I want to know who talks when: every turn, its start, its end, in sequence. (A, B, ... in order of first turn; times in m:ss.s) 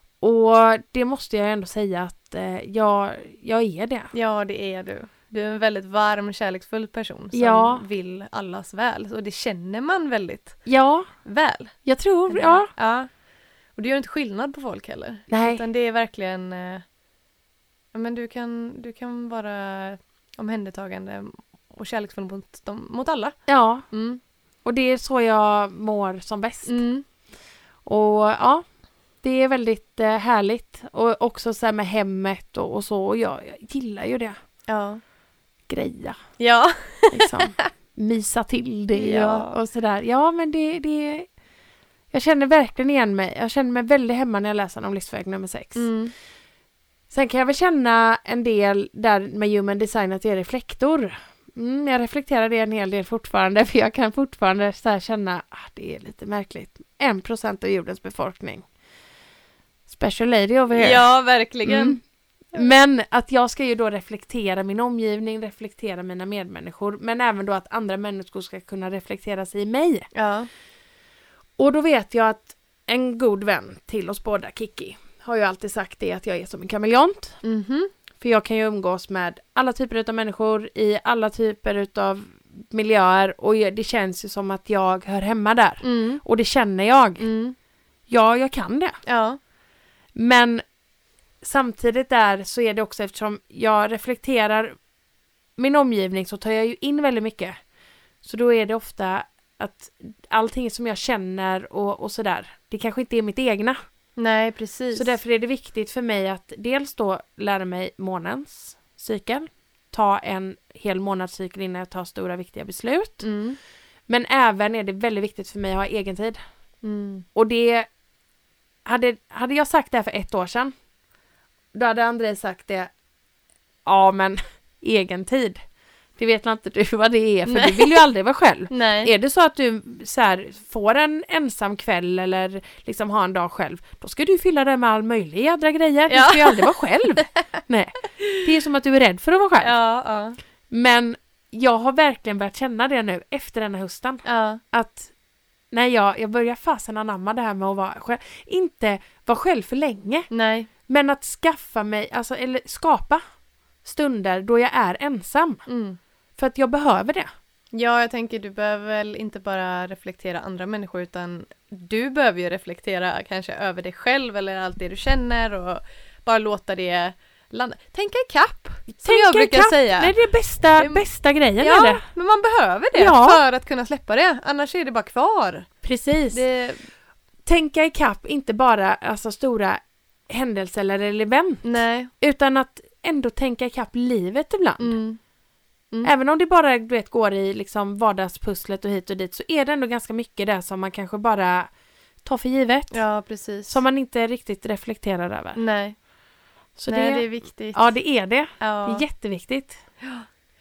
0:00.2-0:04.1 A
0:04.1-0:10.6 B
0:07.3-0:07.8 A
0:10.6-0:11.1 A
0:11.2-0:11.7 B
0:11.8-0:12.7 A
0:12.3-0:13.1 B
0:13.8-0:16.8 B
0:15.3-0:15.6 A
0:17.9-0:23.4 B
0:23.5-0:23.8 A
0:23.9-0:24.2 B
0:24.6-0:26.8 A
0:26.6-0:27.0 B
0:27.8-0:28.6 A
0:29.2-0:34.4 A
0:34.7-0:35.0 B
0:35.7-0:36.2 A
0:36.4-0:37.7 B
0:37.1-0:41.3 A
0:38.9-0:39.5 B
0:42.1-0:45.9 A
0:45.8-0:46.1 B
0:47.1-0:58.6 A
0:59.9-1:01.1 A
1:00.7-1:02.0 B
1:01.6-1:02.0 A
1:02.5-1:10.1 A
1:10.1-1:10.5 B
1:11.6-1:17.4 A
1:17.4-1:17.9 B
1:18.2-1:27.3 A
1:25.8-1:26.2 B
1:27.2-1:27.6 B
1:28.1-1:29.0 A
1:29.0-1:29.4 B
1:30.1-1:30.6 A
1:31.4-1:34.8 A
1:35.6-1:37.6 A
1:38.2-1:43.8 A
1:44.2-1:45.2 B
1:44.9-1:53.2 A
1:53.2-1:53.6 B
1:54.1-1:56.4 A
1:56.8-1:57.2 B
1:57.3-1:57.9 A
1:58.8-2:00.7 A
2:01.7-2:02.9 A
2:03.8-2:05.6 A
2:06.2-2:19.8 A
2:07.4-2:08.0 B
2:08.7-2:09.1 B
2:16.1-2:16.7 B
2:19.6-2:20.4 B
2:20.7-2:25.1 A
2:24.2-2:24.6 B
2:25.7-2:30.3 A
2:30.3-2:30.7 B
2:30.9-2:33.2 A
2:33.8-2:35.6 A
2:35.7-2:36.0 B
2:36.4-2:37.3 A
2:37.7-2:50.2 B
2:49.0-2:52.0 A
2:50.8-2:51.0 B
2:51.6-2:55.7 B
2:53.0-2:53.4 A
2:55.8-2:56.4 A
2:56.3-2:56.8 B
2:57.4-3:05.0 A
3:01.6-3:02.1 B
3:04.8-3:05.2 B
3:06.0-3:11.7 A
3:12.2-3:13.0 A
3:12.9-3:13.8 B
3:13.7-3:15.6 A
3:15.6-3:16.0 B
3:16.8-3:19.8 A
3:16.9-3:17.9 B
3:18.6-3:19.0 B
3:20.0-3:20.2 B